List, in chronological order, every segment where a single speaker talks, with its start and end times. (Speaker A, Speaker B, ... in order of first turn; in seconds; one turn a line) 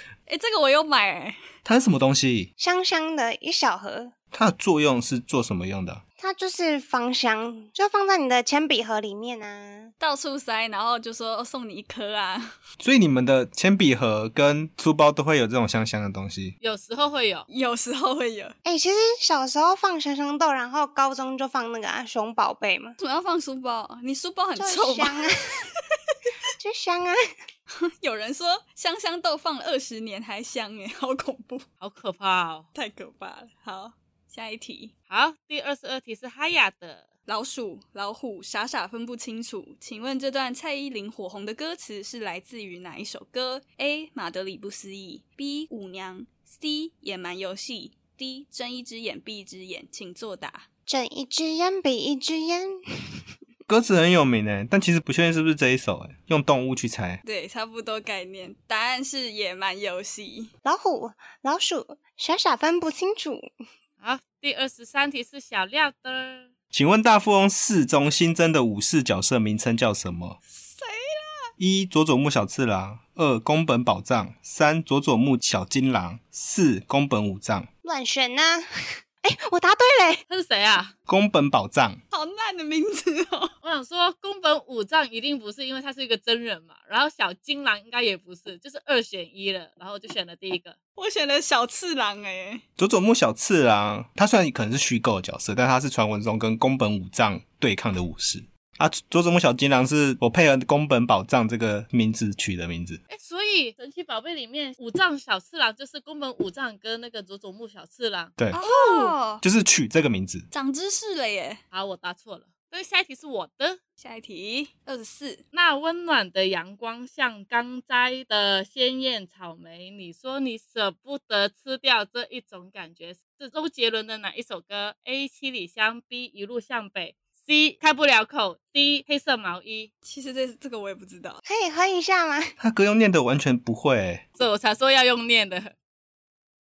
Speaker A: 0.3-1.4
Speaker B: 1.6-2.5
Speaker C: 2.6-4.1
Speaker B: 4.3-6.0
Speaker C: 6.2-9.9
Speaker A: 10.0-12.6
Speaker B: 12.8-16.6
Speaker D: 16.6-17.5
Speaker A: 17.5-18.6
Speaker C: 18.6-23.0
Speaker A: 23.0-25.7
Speaker C: 24.6-25.7
Speaker C: 26.6-27.2
Speaker A: 27.7-31.7
Speaker D: 31.8-32.7
Speaker A: 32.7-34.9
Speaker D: 35.1-37.1
Speaker A: 37.3-50.7
Speaker C: 50.9-52.8
Speaker B: 53.7-57.2
Speaker A: 57.2-60.5
Speaker C: 60.6-63.5
Speaker D: 64.0-66.5
Speaker B: 66.7-70.4
Speaker A: 70.5-71.5
Speaker B: 71.6-77.7
Speaker C: 77.8-78.7
Speaker C: 79.2-80.2
Speaker D: 80.3-80.9
Speaker B: 81.1-82.0
Speaker A: 82.1-83.5
Speaker D: 83.6-90.8
Speaker A: 91.0-92.6
Speaker B: 92.8-103.0
Speaker D: 103.1-109.2
Speaker A: 108.5-109.4
Speaker B: 109.4-110.5
Speaker A: 110.5-111.6
Speaker D: 111.7-113.8
Speaker A: 114.0-115.4
Speaker D: 115.5-129.9
Speaker A: 130.1-131.4
Speaker C: 131.4-132.5
Speaker B: 132.6-134.2
Speaker D: 134.4-135.7